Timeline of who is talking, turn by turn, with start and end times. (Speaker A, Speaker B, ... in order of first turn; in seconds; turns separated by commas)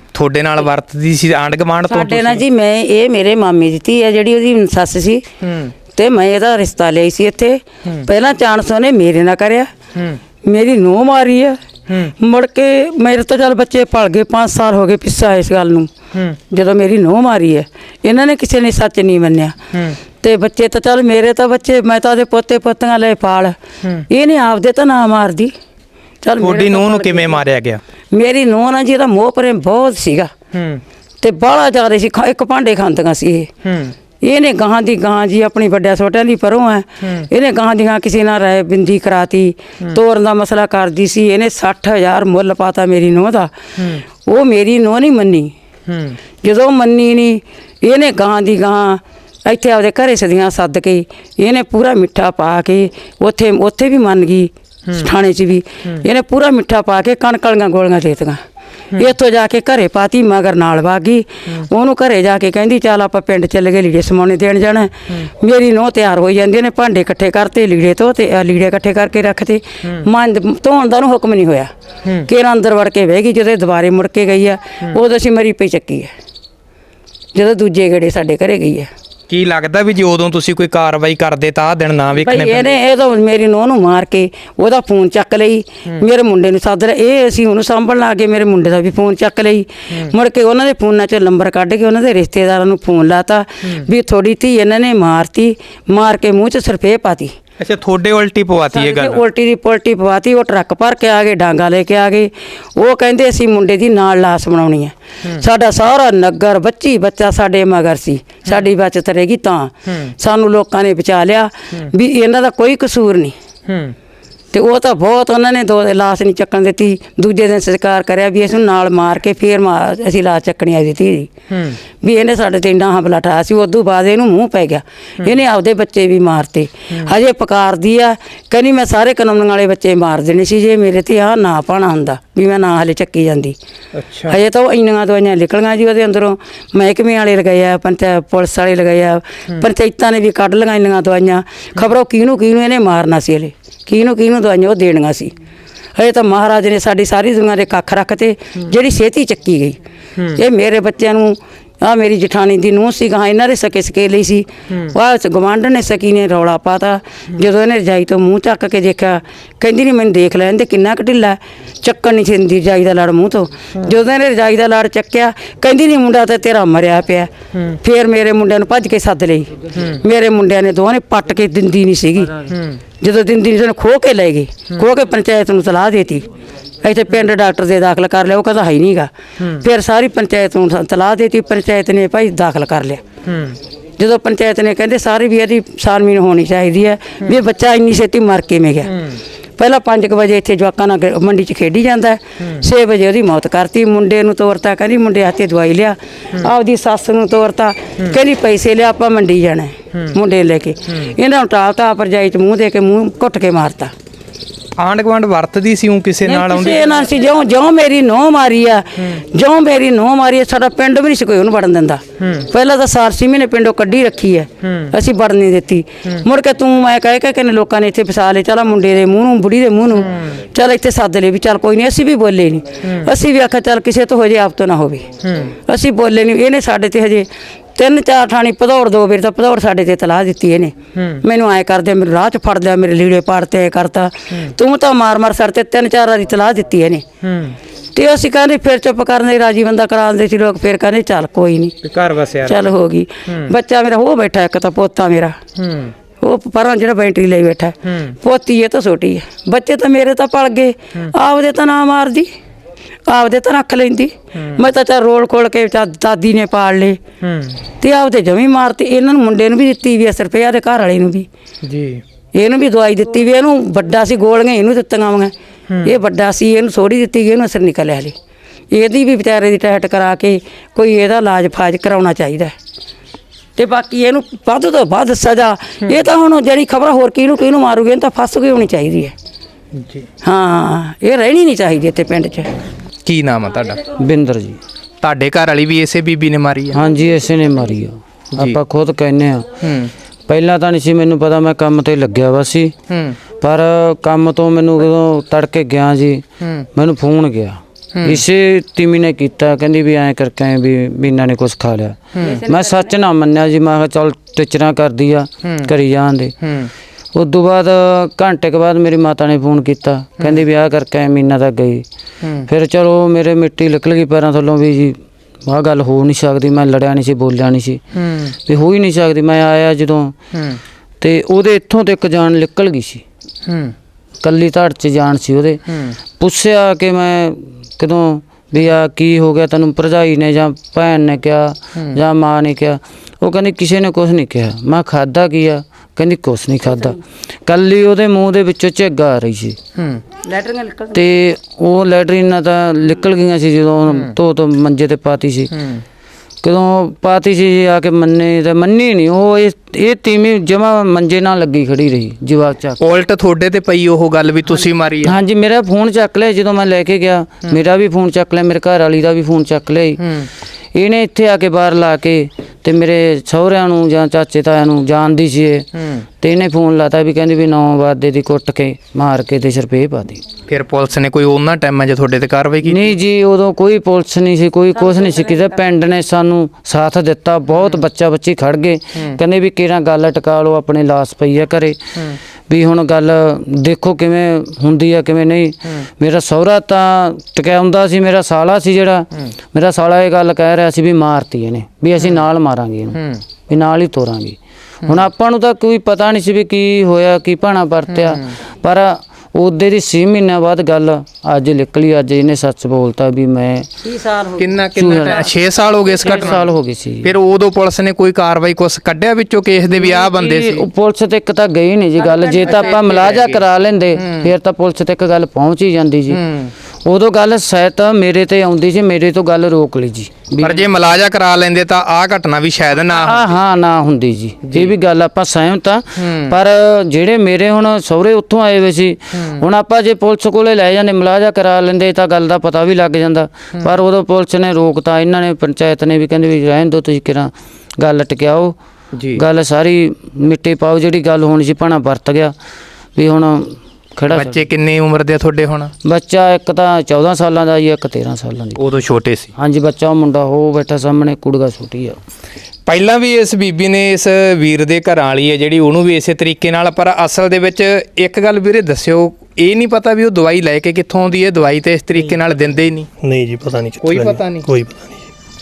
Speaker A: 0.1-2.4, Speaker B: 1.9-5.2, Speaker A: 5.4-5.7, Speaker B: 5.9-9.7, Speaker B: 10.4-11.6, Speaker A: 11.9-12.1, Speaker B: 12.2-15.9, Speaker B: 16.5-19.6, Speaker B: 20.2-23.6, Speaker B: 24.1-25.5, Speaker B: 26.2-27.4, Speaker A: 26.4-27.8, Speaker B: 28.1-30.3, Speaker A: 30.5-30.8, Speaker B: 31.2-33.5, Speaker A: 33.6-33.9, Speaker B: 34.2-43.5, Speaker A: 37.0-37.3, Speaker A: 43.8-44.0, Speaker B: 44.1-45.5, Speaker A: 45.9-46.2, Speaker B: 46.4-58.4, Speaker B: 59.0-71.7, Speaker B: 72.2-76.1, Speaker B: 77.3-78.9, Speaker A: 79.3-82.7, Speaker B: 82.2-97.3, Speaker A: 97.6-99.2, Speaker B: 98.7-113.3, Speaker A: 109.9-110.1, Speaker A: 113.7-113.9, Speaker B: 114.5-121.3, Speaker A: 121.5-121.8, Speaker B: 122.0-133.6, Speaker A: 133.9-134.4, Speaker B: 134.3-145.3, Speaker B: 145.9-149.8, Speaker B: 150.3-172.4, Speaker A: 169.7-170.0, Speaker A: 172.4-172.8, Speaker B: 173.0-176.2, Speaker B: 176.8-183.0, Speaker A: 179.4-179.6, Speaker A: 183.2-183.6, Speaker B: 184.0-188.9, Speaker A: 188.9-189.2, Speaker B: 189.6-203.9, Speaker A: 204.8-207.0, Speaker B: 206.2-225.1, Speaker A: 212.2-212.5, Speaker A: 214.6-214.9, Speaker A: 220.0-220.3, Speaker A: 222.8-223.1, Speaker A: 225.2-225.6, Speaker B: 225.7-237.0, Speaker A: 230.9-231.2, Speaker A: 237.2-237.6, Speaker B: 237.9-241.8, Speaker A: 241.8-242.7, Speaker B: 242.4-245.4, Speaker A: 243.2-243.5, Speaker A: 245.6-245.9, Speaker B: 246.2-252.3, Speaker A: 247.8-248.2, Speaker B: 253.1-257.0, Speaker A: 254.3-254.6, Speaker A: 257.2-257.6, Speaker B: 257.8-261.3, Speaker A: 261.6-262.0, Speaker B: 262.3-265.3, Speaker A: 265.7-265.9, Speaker B: 265.8-268.1, Speaker B: 268.7-272.5, Speaker B: 273.6-279.1, Speaker A: 279.8-280.1, Speaker B: 280.2-282.5, Speaker A: 283.0-283.8, Speaker C: 283.9-284.6, Speaker A: 285.0-286.8, Speaker C: 286.7-289.5, Speaker A: 289.6-289.9, Speaker C: 290.3-292.7, Speaker A: 292.9-293.2, Speaker C: 293.4-296.2, Speaker C: 296.7-306.3, Speaker A: 297.9-298.2, Speaker A: 302.1-302.5, Speaker A: 305.4-305.7, Speaker A: 306.4-306.7, Speaker C: 307.1-311.8, Speaker A: 312.2-312.5, Speaker C: 312.5-317.8, Speaker A: 317.9-318.3, Speaker C: 318.4-320.1, Speaker A: 320.3-320.6, Speaker C: 321.0-323.0, Speaker A: 323.5-323.7, Speaker C: 324.2-325.6, Speaker A: 325.7-326.0, Speaker C: 326.2-339.6, Speaker A: 339.8-340.0, Speaker B: 340.3-341.0, Speaker C: 340.9-345.5, Speaker A: 343.9-344.1, Speaker A: 345.5-345.8, Speaker C: 346.4-352.8, Speaker A: 352.8-355.1, Speaker C: 355.0-360.0, Speaker A: 360.0-360.3, Speaker C: 360.7-365.7, Speaker A: 365.8-366.1, Speaker C: 366.2-370.2, Speaker A: 370.5-372.9, Speaker C: 372.6-381.8, Speaker A: 377.5-377.8, Speaker C: 382.5-403.7, Speaker A: 392.9-393.2, Speaker A: 397.9-398.3, Speaker B: 403.9-404.4, Speaker A: 404.4-406.4, Speaker C: 404.7-405.2, Speaker C: 406.0-407.1, Speaker A: 407.0-410.7, Speaker C: 409.8-416.2, Speaker B: 412.2-412.5, Speaker A: 412.4-413.4, Speaker A: 414.0-414.3, Speaker A: 416.1-416.5, Speaker C: 416.9-420.6, Speaker A: 420.4-423.4, Speaker C: 422.9-438.6, Speaker A: 424.4-424.7, Speaker A: 426.0-426.3, Speaker A: 429.1-429.4, Speaker A: 438.9-439.2, Speaker C: 439.1-442.3, Speaker C: 442.9-444.4, Speaker A: 444.1-445.7, Speaker C: 445.8-448.6, Speaker A: 448.6-449.3, Speaker C: 449.4-452.0, Speaker A: 452.7-462.9, Speaker D: 463.0-465.1, Speaker A: 463.8-464.5